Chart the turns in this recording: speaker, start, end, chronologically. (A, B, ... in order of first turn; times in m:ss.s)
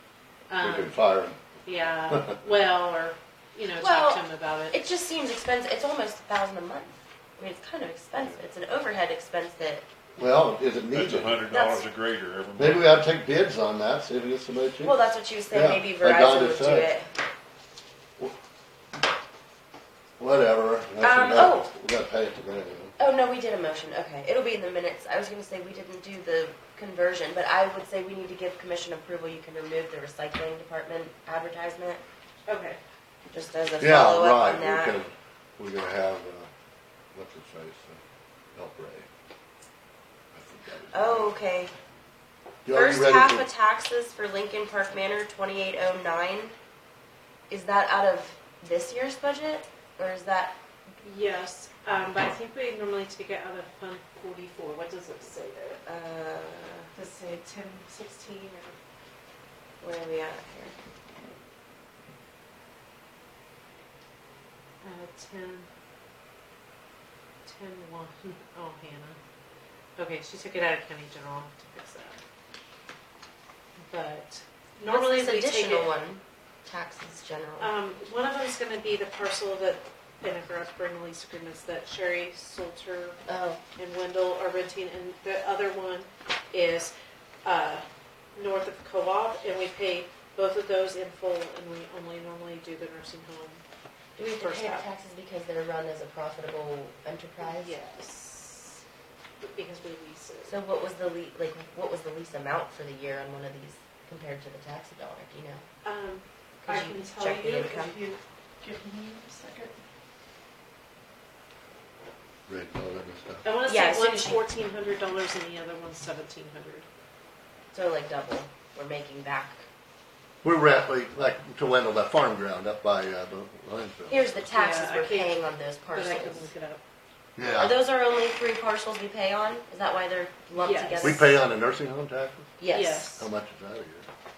0:00.5-0:00.9 A
0:00.6-0:01.4 B
0:01.6-0:04.8 A
0:02.1-0:02.4 B
0:03.8-0:09.8 C
0:10.2-0:11.4 B
0:10.9-0:13.0 D
0:11.5-0:11.8 C
0:12.6-0:15.0 B
0:14.8-0:17.1 C
0:15.5-0:16.9 B
0:20.2-0:23.0 B
0:21.0-0:21.7 C
0:23.0-0:32.0 C
0:32.5-0:32.8 A
0:33.3-0:35.0 C
0:33.8-0:36.5 B
0:37.1-0:38.0 B
0:38.5-0:39.1 B
0:40.3-0:41.4 B
0:40.9-0:41.7 C
0:42.6-0:43.5 B
0:42.7-0:46.5 C
0:47.5-0:50.6 C
0:51.0-0:55.8 A
0:55.8-0:56.9 C
0:56.9-0:58.8 A
0:59.8-1:00.7 C
1:04.8-1:05.7 A
1:07.4-1:09.2 A
1:10.0-1:12.2 A
1:13.9-1:15.9 A
1:14.8-1:17.7 C
1:17.6-1:23.2 A
1:23.3-1:23.6 C
1:23.8-1:26.9 A
1:27.4-1:33.6 A
1:34.2-1:37.8 C
1:34.4-1:34.9 A
1:37.4-1:38.8 A
1:39.4-1:40.6 A
1:40.4-1:45.6 C
1:45.8-1:49.8 A
1:46.6-1:48.0 C
1:52.5-1:53.4 B
1:53.4-1:56.8 A
1:53.6-1:54.4 C
1:57.7-1:59.6 C
2:00.4-2:04.4 B
2:04.1-2:06.5 C
2:04.5-2:06.8 A
2:07.4-2:07.8 B
2:07.6-2:11.4 C
2:10.5-2:11.2 A
2:11.0-2:12.5 B
2:12.6-2:13.1 C
2:12.7-2:13.3 A
2:13.2-2:14.1 B